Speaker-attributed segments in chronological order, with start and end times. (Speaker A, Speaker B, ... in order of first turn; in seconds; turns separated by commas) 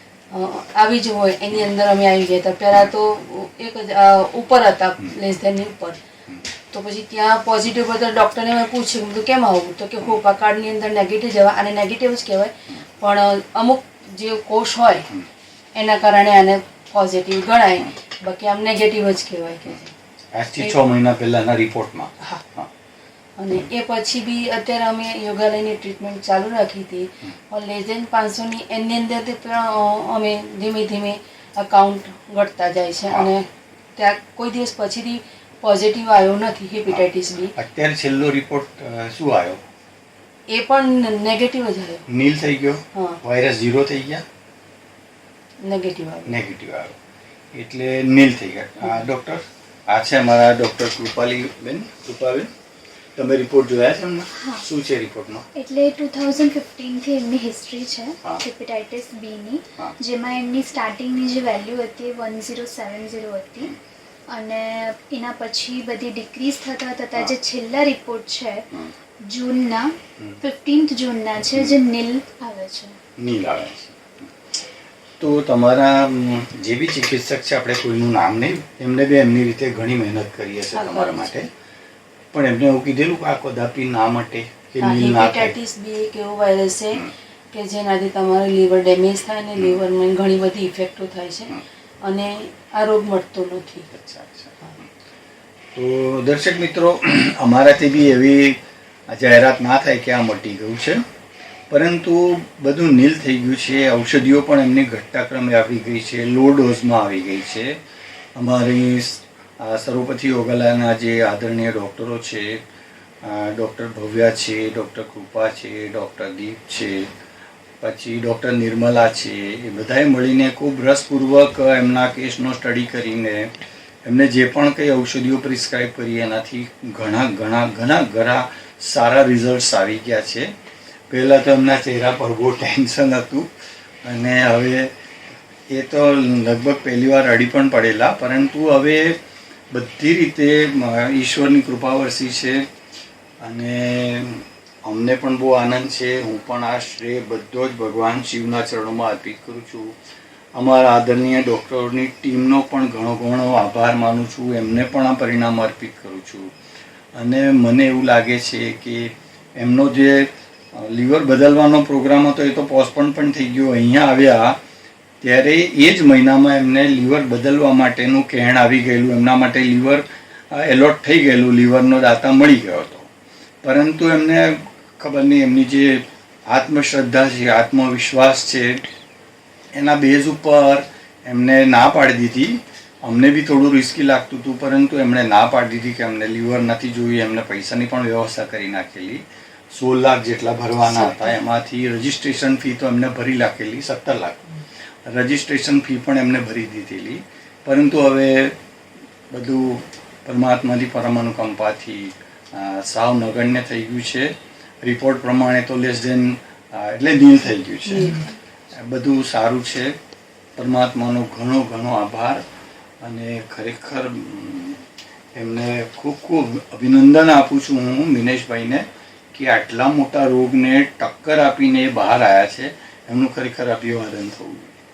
Speaker A: 0.3-6.0, Speaker A: 6.7-15.1, Speaker A: 15.7-19.9, Speaker B: 20.3-22.7, Speaker A: 23.4-37.5, Speaker B: 37.5-39.6, Speaker A: 40.5-42.0, Speaker B: 42.1-44.2, Speaker A: 42.9-43.2, Speaker A: 45.6-46.4, Speaker B: 46.2-47.0, Speaker B: 47.5-52.5, Speaker B: 53.1-55.5, Speaker C: 54.3-54.6, Speaker C: 55.5-63.7, Speaker C: 64.3-68.7, Speaker C: 69.2-73.0, Speaker B: 73.2-74.3, Speaker B: 75.2-81.5, Speaker A: 80.7-81.4, Speaker B: 82.3-85.5, Speaker A: 84.8-93.9, Speaker B: 93.9-94.8, Speaker B: 95.7-101.0, Speaker B: 101.7-107.8, Speaker B: 108.3-112.6, Speaker B: 113.2-117.1, Speaker B: 117.8-130.5, Speaker B: 131.1-133.5, Speaker B: 134.0-134.9, Speaker B: 135.7-139.2, Speaker B: 139.7-142.6, Speaker B: 143.4-149.9, Speaker B: 150.5-156.5, Speaker B: 157.2-164.6, Speaker B: 165.2-173.1, Speaker B: 173.6-178.8, Speaker B: 179.7-194.4, Speaker B: 195.0-198.5, Speaker B: 199.3-209.9, Speaker A: 207.8-208.3, Speaker B: 210.6-212.4, Speaker B: 213.0-214.8, Speaker B: 215.3-224.8